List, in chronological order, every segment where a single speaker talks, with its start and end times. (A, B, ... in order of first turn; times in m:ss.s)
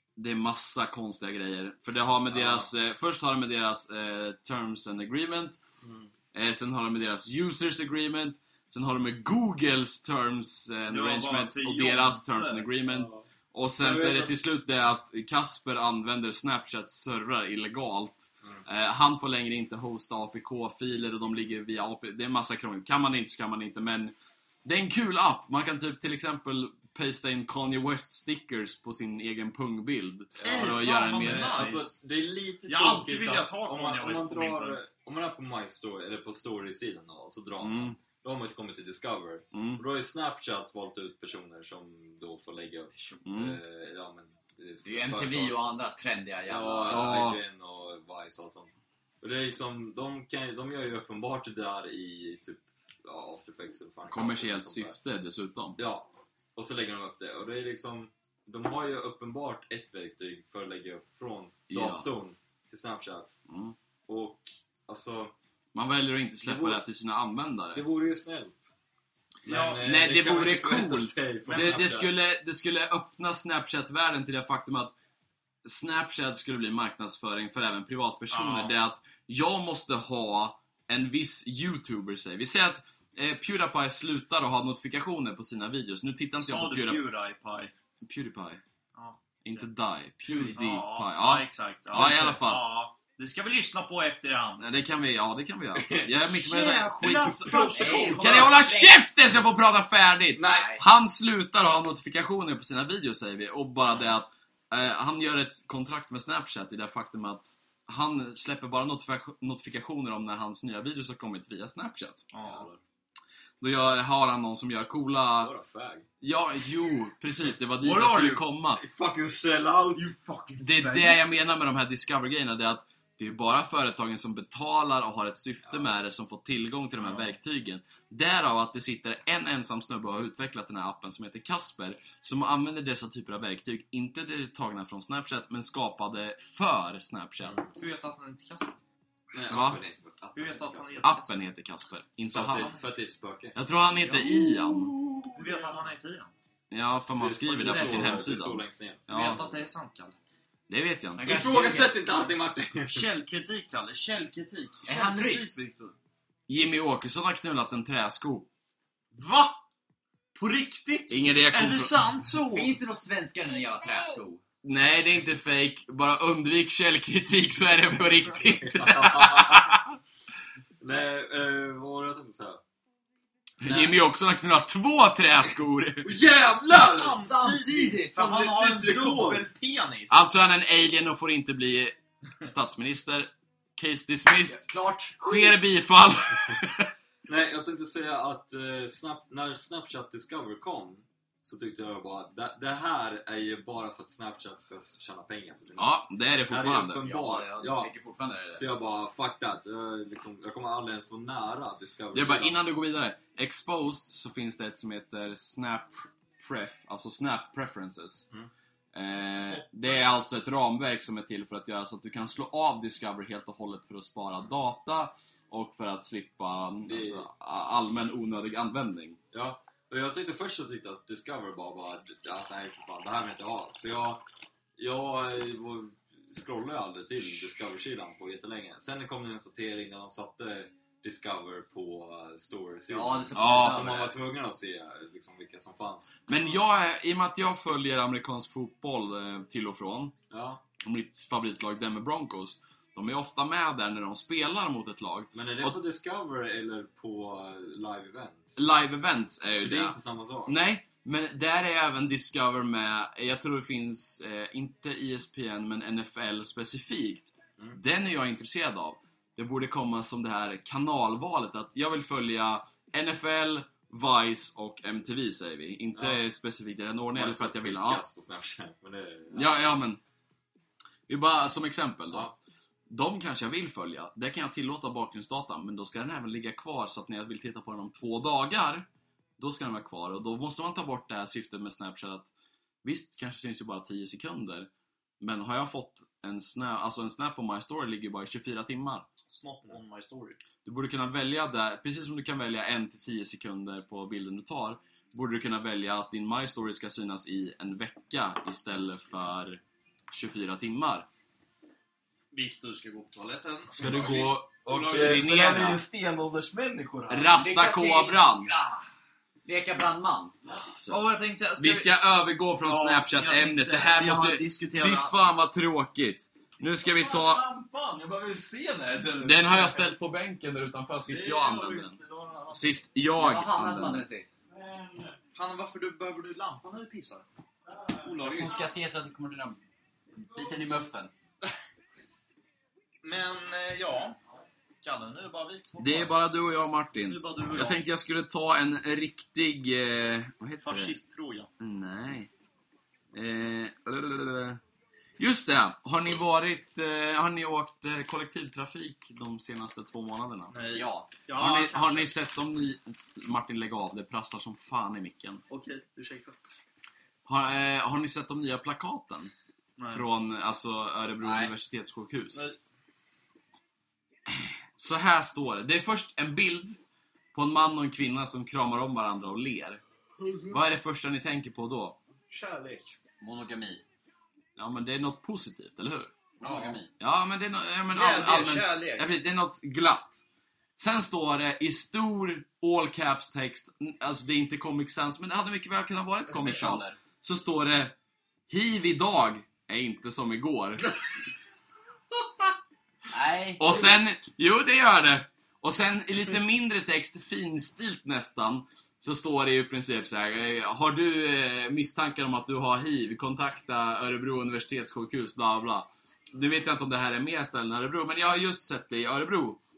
0:00.2-0:05.6 A
0:02.3-0:02.7 B
0:05.8-0:06.1 B
0:06.3-0:31.8 A
0:10.9-0:12.7 C
0:12.9-0:13.2 B
0:13.8-0:14.4 B
0:30.4-0:31.9 C
0:30.5-0:45.6 B
0:32.7-0:34.8 C
0:37.6-0:38.0 A
0:39.5-0:39.8 A
0:43.2-0:43.6 A
0:44.8-0:47.1 D
0:46.5-0:54.9 B
0:46.9-0:47.4 A
0:54.1-0:55.8 A
0:55.8-1:03.4 B
1:01.7-1:02.1 A
1:03.5-1:03.8 A
1:04.1-1:05.3 B
1:05.7-1:07.8 A
1:06.4-1:06.8 B
1:07.7-1:08.7 B
1:09.4-1:12.1 B
1:09.4-1:09.8 C
1:09.8-1:14.9 A
1:11.4-1:11.8 C
1:15.6-1:27.0 A
1:18.3-1:18.8 C
1:26.4-1:27.7 C
1:28.0-1:28.6 A
1:28.9-1:29.7 C
1:29.4-1:32.6 A
1:30.2-1:34.7 C
1:34.6-1:52.3 A
1:35.8-1:36.2 B
1:36.5-1:38.3 C
1:37.1-1:38.5 B
1:37.6-1:39.0 D
1:40.4-1:40.7 B
1:40.4-1:40.8 D
1:52.3-1:52.7 C
1:52.4-1:52.8 B
1:53.6-1:55.5 A
1:55.4-1:56.0 B
1:56.2-1:58.8 A
1:57.8-1:58.4 C
1:58.8-2:00.1 B
2:00.0-2:01.3 C
2:00.6-2:17.6 A
2:07.0-2:07.4 C
2:17.8-2:18.8 C
2:19.3-2:21.1 B
2:19.5-2:19.8 A
2:20.3-2:21.4 C
2:21.0-2:22.7 A
2:22.3-2:23.6 B
2:22.5-2:22.8 C
2:23.6-2:24.9 A
2:24.1-2:25.4 B
2:25.3-2:26.3 C
2:26.7-2:29.4 A
2:27.2-2:29.5 B
2:27.6-2:28.2 C
2:29.1-2:30.2 C
2:30.7-2:31.4 A
2:31.2-2:32.0 D
2:31.2-2:33.1 B
2:32.9-2:35.9 C
2:34.8-2:35.6 D
2:36.5-2:38.5 A
2:39.1-2:39.6 C
2:40.3-2:42.8 C
2:41.1-2:41.9 A
2:42.5-2:44.4 D
2:44.6-2:49.9 A
2:48.6-2:49.8 B
2:50.8-2:52.6 B
2:53.6-2:56.2 A
2:53.6-2:54.0 B
2:56.0-2:57.2 B
2:56.7-3:00.2 C
2:56.8-2:58.2 D
2:58.2-2:59.4 B
3:00.1-3:04.7 A
3:04.5-3:05.6 D
3:05.2-3:06.9 A
3:07.3-3:15.9 B
3:15.8-3:17.0 A
3:16.5-3:17.9 B
3:17.0-3:18.6 D
3:18.5-3:22.6 B
3:22.1-3:28.3 A
3:28.9-3:39.2 A
3:29.3-3:30.4 C
3:36.9-3:37.2 B
3:39.3-3:44.2 B
3:44.8-3:56.3 B
3:52.9-3:54.2 D
3:53.3-3:53.9 A
3:56.3-4:00.2 A
4:00.3-4:00.6 B
4:00.8-4:05.8 A
4:05.3-4:08.6 B
4:08.6-4:28.0 A
4:09.6-4:10.6 B
4:25.9-4:26.2 B
4:27.1-4:29.6 B
4:29.3-4:30.0 A
4:31.1-4:32.3 A
4:32.9-4:38.9 A
4:39.4-4:42.3 A
4:42.8-4:49.1 A
4:49.3-4:50.4 C
4:50.6-5:01.1 A
5:02.3-5:04.0 C
5:03.7-5:05.8 A
5:03.8-5:07.3 B
5:04.7-5:05.3 C
5:07.1-5:08.5 A
5:07.3-5:08.8 D
5:09.4-5:10.6 D
5:10.5-5:11.0 A
5:10.9-5:11.9 C
5:11.6-5:17.4 A
5:12.6-5:15.1 C
5:16.8-5:19.9 B
5:19.2-5:22.0 A
5:21.1-5:22.8 B
5:22.5-5:24.0 A
5:23.2-5:24.3 D
5:24.5-5:25.2 B
5:25.3-5:27.2 C
5:27.7-5:28.6 B
5:28.1-5:28.6 C
5:28.1-5:29.6 D
5:30.3-5:31.1 D
5:33.0-5:34.2 C
5:34.8-5:36.1 C
5:35.8-5:41.0 A
5:37.0-5:37.8 C
5:40.6-5:41.5 C
5:41.6-5:42.3 A
5:43.1-5:44.6 A
5:45.2-5:50.5 A
5:50.5-5:52.1 C
5:50.7-5:51.1 D
5:51.4-5:55.4 A
5:55.5-5:56.4 C
5:57.2-5:59.3 A
5:59.8-6:00.0 C
5:59.9-6:02.4 A
6:01.2-6:01.5 D
6:04.8-6:06.8 A
6:07.3-6:09.8 A
6:10.2-6:10.6 C
6:10.5-6:12.0 A
6:12.3-6:12.9 C
6:13.2-6:13.8 D
6:14.6-6:16.3 A
6:16.4-6:16.9 D
6:16.4-6:16.8 C
6:16.9-6:20.2 A
6:17.9-6:19.1 C
6:20.8-6:28.0 A
6:26.2-6:27.0 D
6:28.5-6:30.9 A
6:33.1-6:33.8 D
6:33.6-6:49.6 A